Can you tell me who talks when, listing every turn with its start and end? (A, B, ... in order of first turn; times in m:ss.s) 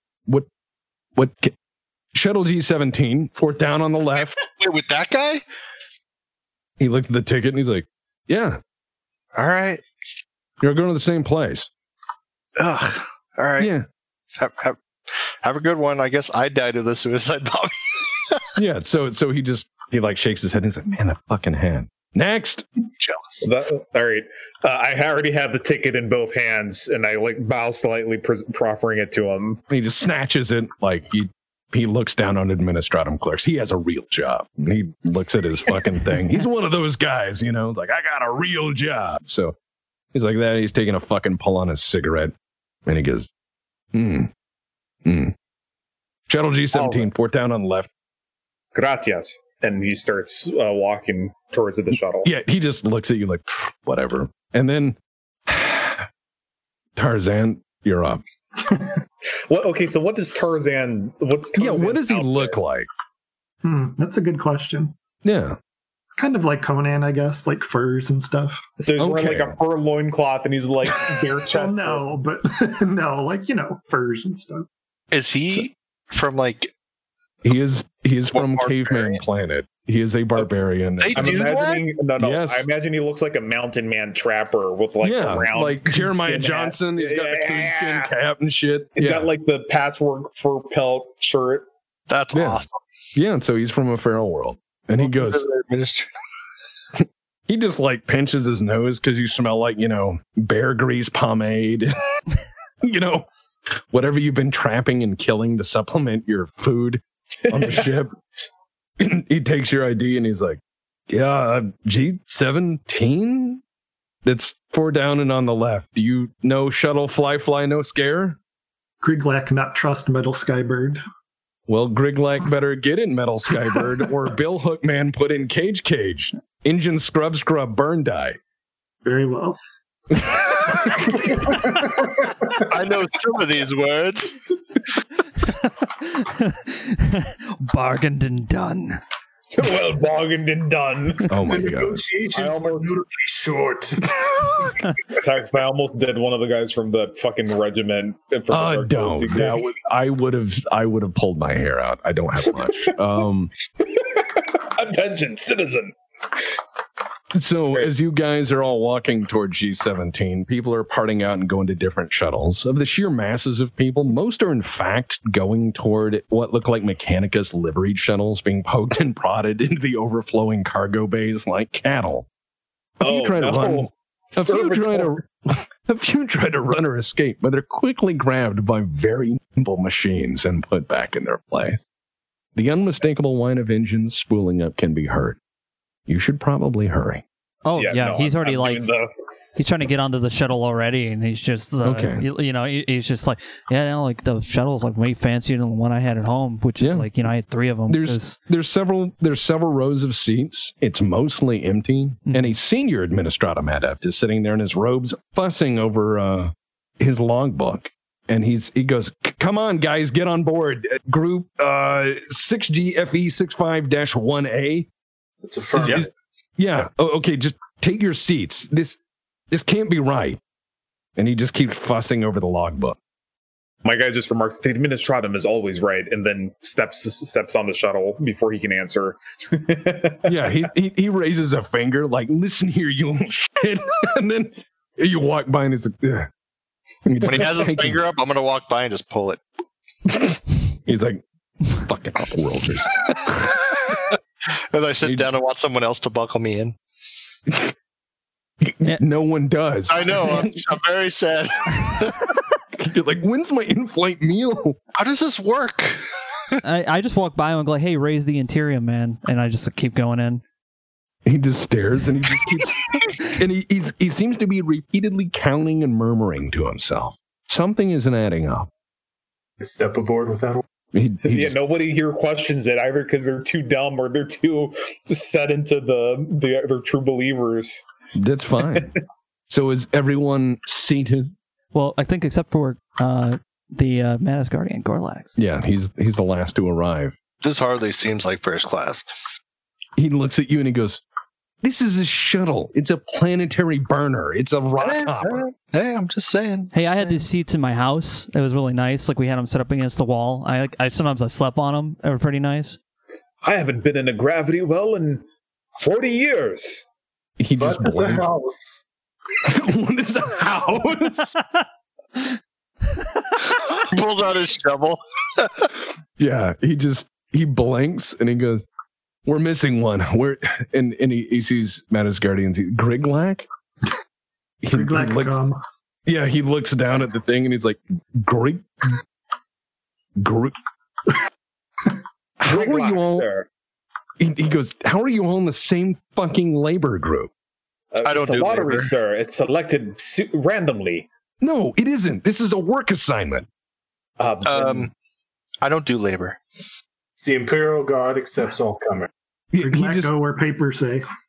0:01.1-0:01.5 A
0:02.1-0:04.4 A
0:04.4-0:05.4 B
0:06.8-0:08.6 A
0:09.3-0:09.8 B
0:10.6-0:11.7 A
0:12.6-0:13.7 B
0:13.6-0:13.9 A
0:14.3-0:14.8 B
0:15.4-0:18.5 B
0:18.6-0:22.6 A
0:23.0-0:23.4 B
0:23.4-0:29.6 C
0:29.7-0:39.6 A
0:40.1-0:42.3 A
0:42.8-0:43.3 A
0:43.9-0:44.3 A
0:45.0-0:45.3 A
0:46.3-0:47.9 A
0:46.7-0:47.1 C
0:48.7-0:52.3 C
0:52.2-0:56.1 A
0:56.9-0:58.2 A
0:59.5-1:02.6 C
1:01.6-1:02.9 A
1:03.6-1:04.9 D
1:05.2-1:05.6 A
1:06.2-1:08.6 D
1:08.8-1:12.1 C
1:09.0-1:09.6 A
1:11.5-1:14.7 D
1:15.1-1:16.7 B
1:17.4-1:21.6 A
1:18.3-1:19.2 B
1:21.0-1:21.8 B
1:21.1-1:28.1 C
1:22.2-1:22.7 A
1:25.0-1:29.3 A
1:29.0-1:31.6 C
1:32.1-1:32.8 B
1:32.3-1:32.6 A
1:33.1-1:35.4 A
1:35.0-1:36.1 B
1:37.5-1:41.9 A
1:42.8-1:48.1 A
1:49.0-1:53.6 A
1:54.2-1:58.4 A
1:59.0-2:01.0 D
2:01.7-2:08.4 A
2:09.0-2:09.6 D
2:11.2-2:11.6 E
2:12.6-2:14.5 B
2:15.4-2:19.0 F
2:19.5-2:21.2 C
2:21.3-2:22.0 A
2:21.4-2:24.6 E
2:22.3-2:22.9 C
2:25.1-2:29.7 C
2:28.5-2:33.5 A
2:34.0-2:35.9 C
2:37.3-2:52.3 A
2:53.0-3:01.8 A
2:53.0-2:55.2 C
3:02.5-3:05.4 A
3:06.1-3:07.2 A
3:07.6-3:08.8 F
3:07.7-3:09.1 C
3:09.6-3:18.4 F
3:11.8-3:12.3 A
3:16.8-3:17.1 A
3:17.9-3:34.9 A
3:35.4-3:36.1 E
3:35.7-3:39.0 A
3:39.5-3:40.4 A
3:41.2-3:43.0 A
3:43.8-3:50.6 C
3:50.2-3:56.3 A
3:57.0-3:58.0 A
3:57.2-3:59.4 B
4:00.1-4:03.5 A
4:04.7-4:06.8 B
4:05.0-4:05.3 A
4:07.5-4:07.7 A
4:08.6-4:10.6 A
4:09.9-4:12.3 B
4:12.7-4:14.8 A
4:15.0-4:16.0 B
4:16.6-4:20.4 F
4:21.2-4:28.7 A
4:29.6-4:30.6 E
4:30.9-4:31.6 A
4:31.2-4:37.8 C
4:38.1-4:38.9 A
4:39.5-4:41.3 A
4:41.7-4:45.4 F
4:45.4-4:47.2 A
4:47.4-4:49.0 B
4:50.0-4:51.0 A
4:51.6-4:55.4 A
4:54.8-4:57.2 B
4:56.7-5:02.8 F
5:03.4-5:05.2 C
5:05.8-5:06.8 C
5:07.4-5:08.3 A
5:07.6-5:08.9 E
5:09.4-5:11.4 A
5:13.8-5:15.7 B
5:16.2-5:18.6 A
5:19.2-5:23.5 A
5:24.6-5:25.4 A
5:24.7-5:25.6 D
5:26.0-5:29.0 A
5:30.2-5:30.6 A
5:32.4-5:33.3 A
5:32.5-5:33.5 C
5:34.2-5:37.3 A
5:37.9-5:41.1 C
5:38.0-5:38.9 B
5:41.4-5:43.5 A
5:44.2-5:44.9 C
5:44.4-5:44.9 B
5:45.6-5:46.4 B
5:47.2-5:49.1 E
5:49.5-5:50.1 A
5:49.6-5:51.0 D